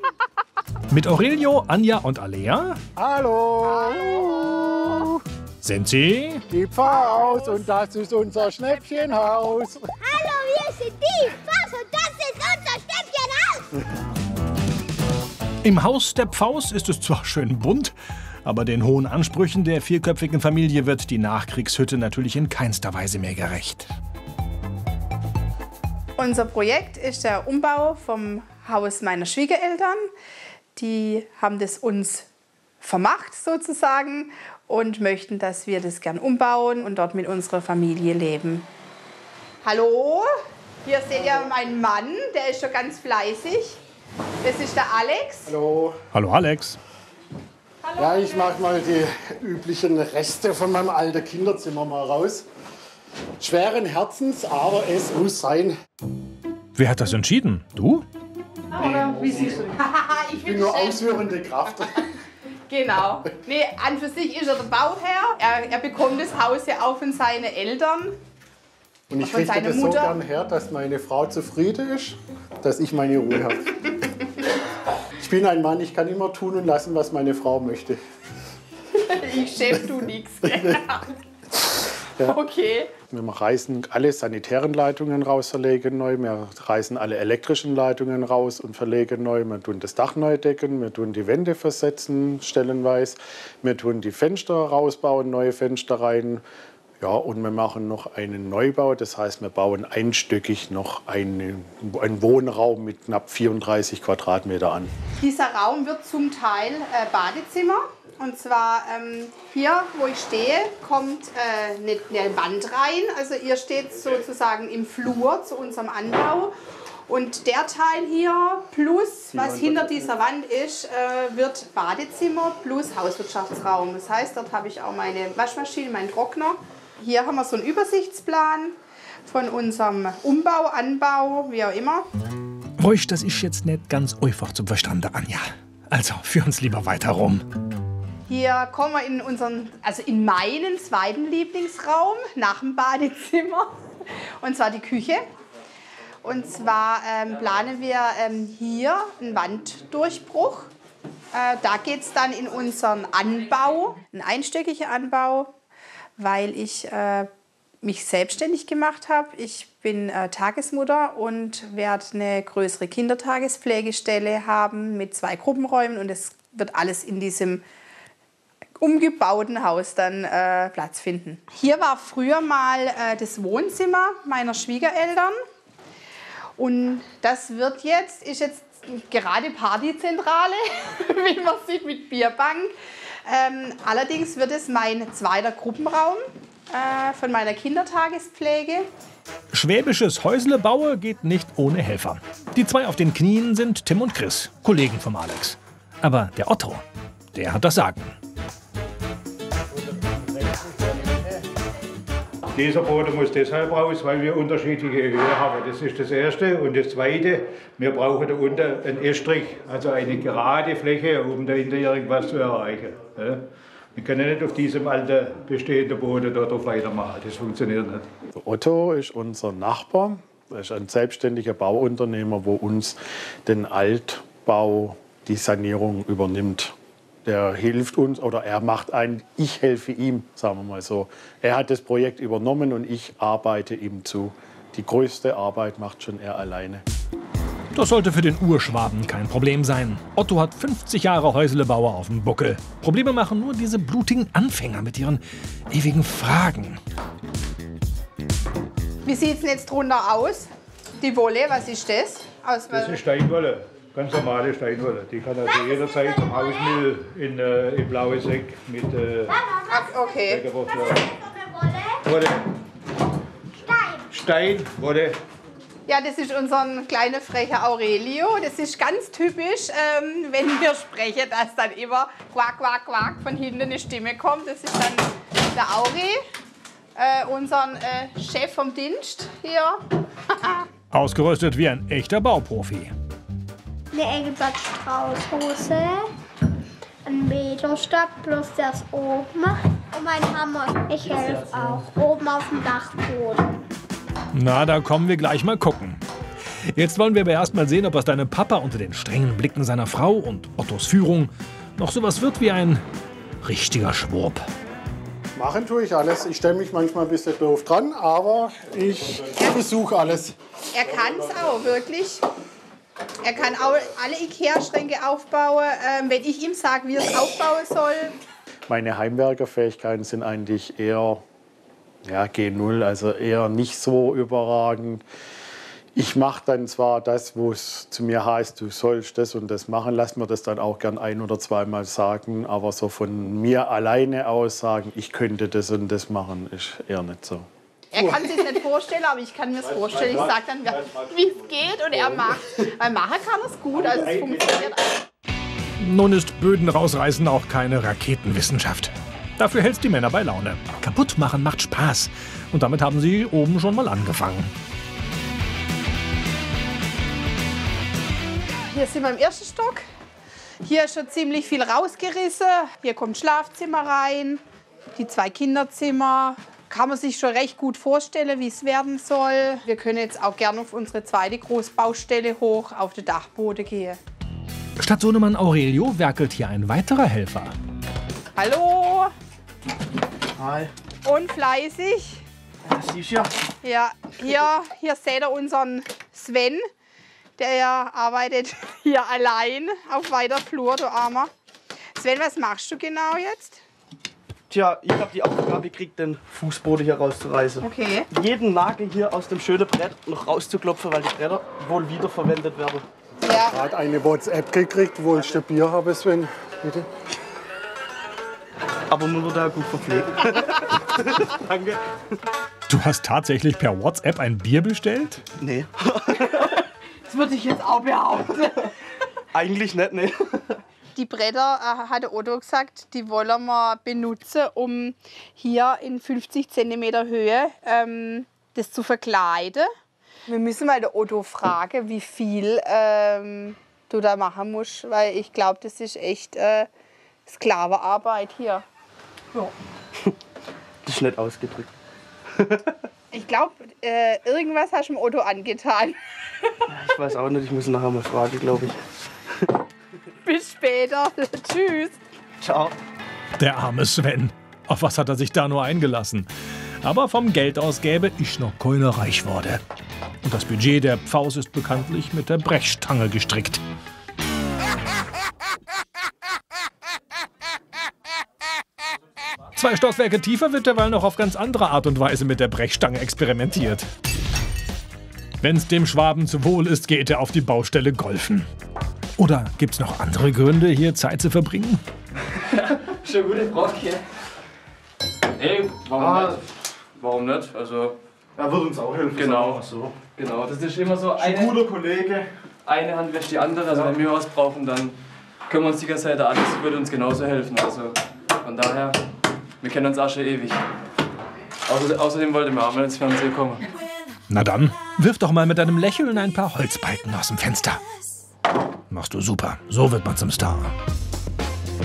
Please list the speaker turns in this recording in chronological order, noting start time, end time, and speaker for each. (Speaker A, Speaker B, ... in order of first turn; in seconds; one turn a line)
Speaker A: 0.9-2.8
Speaker B: 3.0-5.2
Speaker C: 3.8-4.8
Speaker A: 5.6-6.4
Speaker B: 6.5-10.0
Speaker C: 6.8-7.7
Speaker D: 10.1-13.7
Speaker A: 15.6-23.9
Speaker C: 26.2-30.1
Speaker C: 30.8-32.3
Speaker C: 32.8-38.7
Speaker C: 39.6-40.3
Speaker C: 40.8-43.8
Speaker C: 44.4-45.5
Speaker B: 45.5-46.0
Speaker A: 46.1-46.8
Speaker C: 47.8-48.2
Speaker B: 48.0-52.5
Speaker B: 53.4-55.7
Speaker A: 56.7-58.0
Speaker C: 58.7-61.1
Speaker B: 58.8-59.6
Speaker B: 60.4-62.1
Speaker C: 62.7-68.2
Speaker B: 69.1-74.0
Speaker C: 69.2-70.2
Speaker B: 75.2-78.0
Speaker C: 78.9-81.1
Speaker C: 82.2-82.9
Speaker B: 83.1-96.4
Speaker B: 97.0-104.9
Speaker C: 105.2-116.5
Speaker C: 117.1-132.1
Speaker B: 119.3-120.0
Speaker A: 132.8-137.4
Speaker C: 138.3-143.7
Speaker C: 144.4-145.2
Speaker C: 146.2-150.7
Speaker C: 151.3-155.5
Speaker C: 156.2-157.3
Speaker C: 157.8-167.6
Speaker C: 168.8-175.3
Speaker C: 176.6-182.7
Speaker C: 183.3-188.9
Speaker A: 189.5-198.1
Speaker E: 202.5-213.4
Speaker E: 213.9-218.1
Speaker B: 218.3-236.8
Speaker A: 237.7-246.8
Speaker C: 249.0-250.5
Speaker C: 251.0-253.0
Speaker E: 252.7-259.4
Speaker D: 259.4-260.2
Speaker C: 259.7-260.5
Speaker E: 260.2-261.2
Speaker D: 260.9-261.9
Speaker E: 262.0-262.4
Speaker D: 263.7-264.0
Speaker E: 264.1-265.2
Speaker C: 265.9-276.2
Speaker C: 276.9-279.8
Speaker C: 280.3-280.6
Speaker A: 280.9-282.9
Speaker D: 283.9-286.1
Speaker D: 287.0-293.5
Speaker F: 291.1-291.5
Speaker A: 294.3-296.0
Speaker A: 296.6-302.8
Speaker A: 303.4-304.5
Speaker B: 305.3-310.3
Speaker C: 310.7-312.2
Speaker C: 313.2-318.2
Speaker B: 318.7-321.2
Speaker B: 322.0-325.0
Speaker B: 325.9-337.5
Speaker C: 337.9-345.0
Speaker E: 339.6-341.1
Speaker E: 343.7-344.6
Speaker A: 345.8-354.5
Speaker C: 358.7-359.8
Speaker C: 360.6-364.4
Speaker C: 364.9-374.0
Speaker A: 374.8-377.5
Speaker C: 378.4-379.1
Speaker G: 380.4-380.7
Speaker C: 381.0-382.2
Speaker G: 382.6-383.4
Speaker C: 383.6-386.6
Speaker C: 387.4-391.3
Speaker C: 392.0-393.6
Speaker G: 394.5-402.8
Speaker C: 397.6-398.1
Speaker C: 403.2-403.6
Speaker B: 403.4-406.9
Speaker G: 408.9-411.8
Speaker A: 412.7-415.2
Speaker G: 415.4-416.6
Speaker C: 416.5-418.7
Speaker G: 419.3-420.6
Speaker C: 420.9-429.7
Speaker C: 430.3-436.7
Speaker C: 437.3-438.6
Speaker G: 440.8-441.7
Speaker G: 442.4-442.7
Speaker C: 443.1-446.5
Speaker G: 446.7-448.8
Speaker C: 450.2-452.0
Speaker G: 452.4-452.8
Speaker A: 453.4-456.3
Speaker A: 456.8-459.6
Speaker A: 460.2-463.6
Speaker A: 469.5-473.9
Speaker A: 475.4-478.5
Speaker A: 479.2-481.8
Speaker F: 482.3-484.0
Speaker F: 485.4-487.9
Speaker G: 488.4-489.9
Speaker F: 489.1-489.6
Speaker F: 490.1-491.7
Speaker G: 491.3-492.2
Speaker F: 492.6-494.9
Speaker F: 495.5-499.0
Speaker F: 499.6-500.6
Speaker F: 501.6-503.7
Speaker A: 504.3-507.8
Speaker A: 508.9-510.7